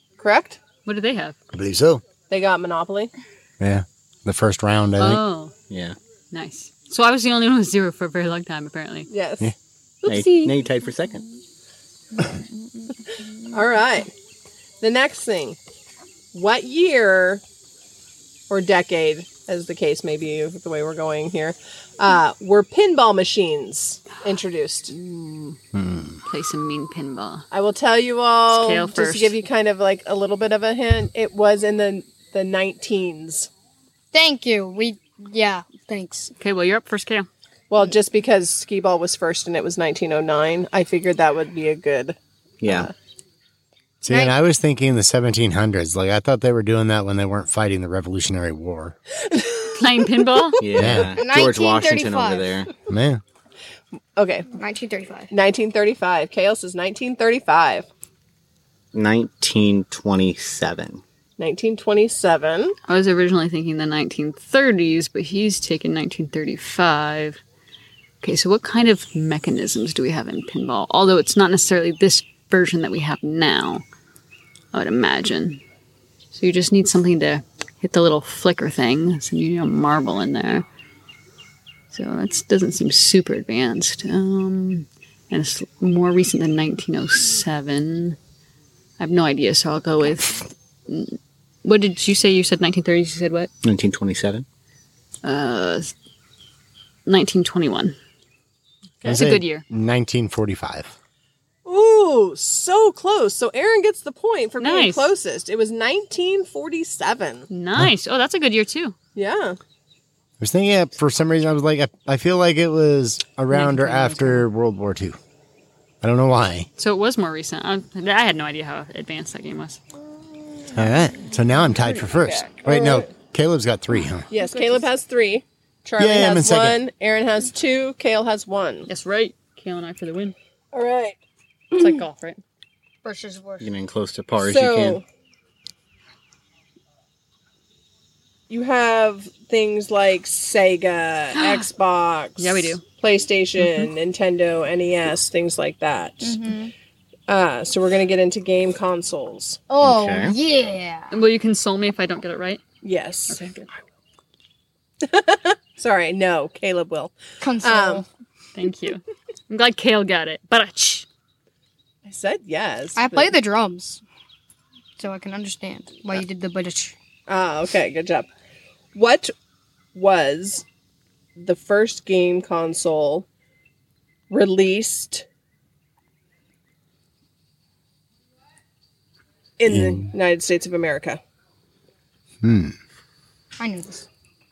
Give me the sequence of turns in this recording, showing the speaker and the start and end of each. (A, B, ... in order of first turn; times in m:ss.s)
0:00.2-0:00.6 A
0:00.8-0:01.4 B
0:01.5-0:02.0 C
0:02.3-0:03.1 A
0:03.6-0:05.2 C
0:05.0-0:05.6 B
0:05.7-0:06.0 D
0:06.3-0:09.1 B
0:09.1-0:09.5 A
0:10.0-0:10.5 B
0:10.1-0:11.2 D
0:12.2-0:13.6 E
0:13.5-0:14.1 A
0:14.8-0:15.6 A
0:16.3-0:17.4 A
0:18.5-0:24.9 A
0:24.9-0:25.6 B
0:25.7-0:26.2 C
0:26.3-0:27.5 B
0:27.5-0:33.5 A
0:28.5-0:29.4 B
0:34.1-0:36.3 E
0:36.4-0:37.3 B
0:37.7-0:42.9 A
0:42.6-0:42.9 D
0:44.0-0:49.0 C
0:44.1-0:44.4 E
0:49.3-0:49.7 A
0:49.7-0:50.6 B
0:50.6-0:52.7 D
0:50.8-0:51.2 C
0:51.1-0:52.7 E
0:52.9-0:53.2 C
0:54.2-0:54.5 A
0:54.5-0:55.3 E
0:55.3-0:57.9 A
0:58.9-1:01.0 D
1:01.4-1:02.8 A
1:02.9-1:07.4 B
1:08.2-1:13.8 B
1:14.7-1:15.6 B
1:16.3-1:20.6 B
1:21.9-1:28.2 B
1:29.0-1:33.5 B
1:33.6-1:34.4 D
1:35.2-1:35.9 B
1:37.1-1:38.0 B
1:39.0-1:39.6 B
1:39.0-1:40.9 C
1:41.6-1:47.5 A
1:44.6-1:45.1 B
1:47.5-1:49.0 B
1:49.2-1:49.6 A
1:50.4-1:55.2 C
1:53.5-1:54.5 B
1:56.0-1:56.7 C
1:56.8-1:59.8 B
2:00.7-2:04.3 C
2:01.8-2:02.5 B
2:02.6-2:03.1 A
2:04.3-2:08.9 A
2:04.3-2:04.9 E
2:06.0-2:06.8 C
2:08.9-2:10.4 B
2:10.7-2:11.2 A
2:11.8-2:12.4 B
2:13.0-2:13.7 E
2:13.6-2:15.0 D
2:14.4-2:15.0 A
2:18.5-2:26.4 A
2:21.3-2:21.7 B
2:22.4-2:22.8 B
2:23.6-2:23.9 B
2:26.2-2:26.7 E
2:27.3-2:29.7 A
2:29.7-2:31.1 E
2:29.8-2:30.4 D
2:31.1-2:32.6 B
2:32.8-2:33.6 A
2:33.3-2:33.6 B
2:35.0-2:38.0 A
2:37.4-2:38.1 E
2:38.6-2:41.1 B
2:42.0-2:43.3 A
2:43.0-2:44.0 E
2:45.0-2:47.0 E
2:47.3-2:48.3 A
2:48.9-2:49.3 A
2:49.9-2:50.6 A
2:51.4-2:53.3 A
2:54.3-2:55.2 A
2:59.6-3:01.2 A
2:59.7-3:00.1 C
3:02.4-3:02.8 C
3:03.6-3:04.1 E